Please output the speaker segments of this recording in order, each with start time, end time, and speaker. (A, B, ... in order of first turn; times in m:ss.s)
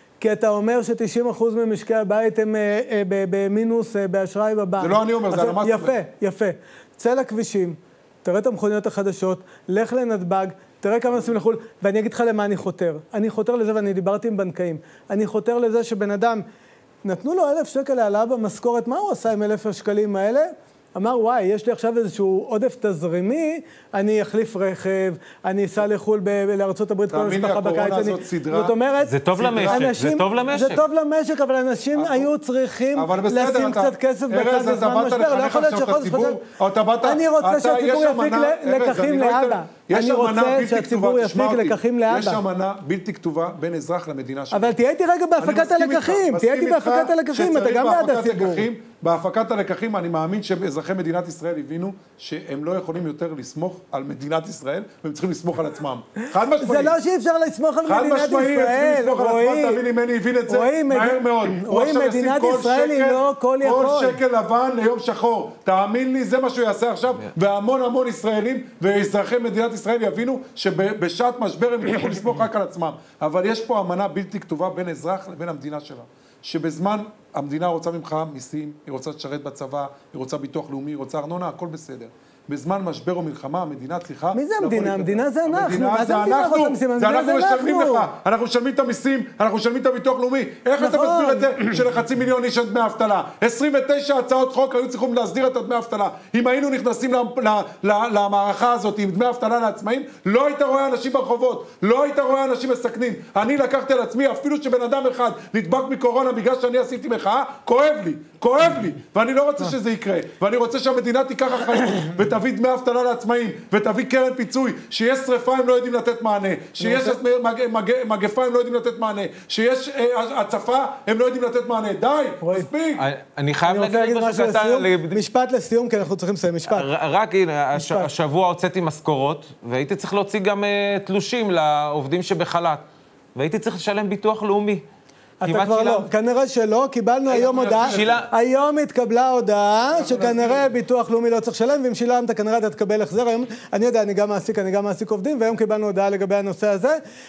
0:00.2-0:16.4 A
0:04.8-0:05.9 B
0:17.0-0:36.4 A
0:27.1-0:28.8 B
0:29.0-0:30.8 C
0:29.4-0:29.9 B
0:31.9-0:32.3 B
0:32.9-0:44.7 B
0:37.0-0:42.4 A
0:44.5-0:48.7 A
0:45.4-0:56.9 B
0:56.6-0:59.8 A
0:57.8-2:03.0 B
1:00.5-1:04.2 A
1:24.3-1:28.1 A
1:30.8-1:31.5 A
1:56.8-1:57.2 A
2:02.4-2:02.7 A
2:03.0-2:05.2 C
2:03.7-2:06.9 A
2:06.7-2:12.8 C
2:07.7-2:08.1 A
2:13.3-2:14.8 C
2:15.4-2:27.0 A
2:15.4-2:16.1 C
2:17.3-2:18.2 B
2:17.4-2:18.3 C
2:19.9-2:20.7 B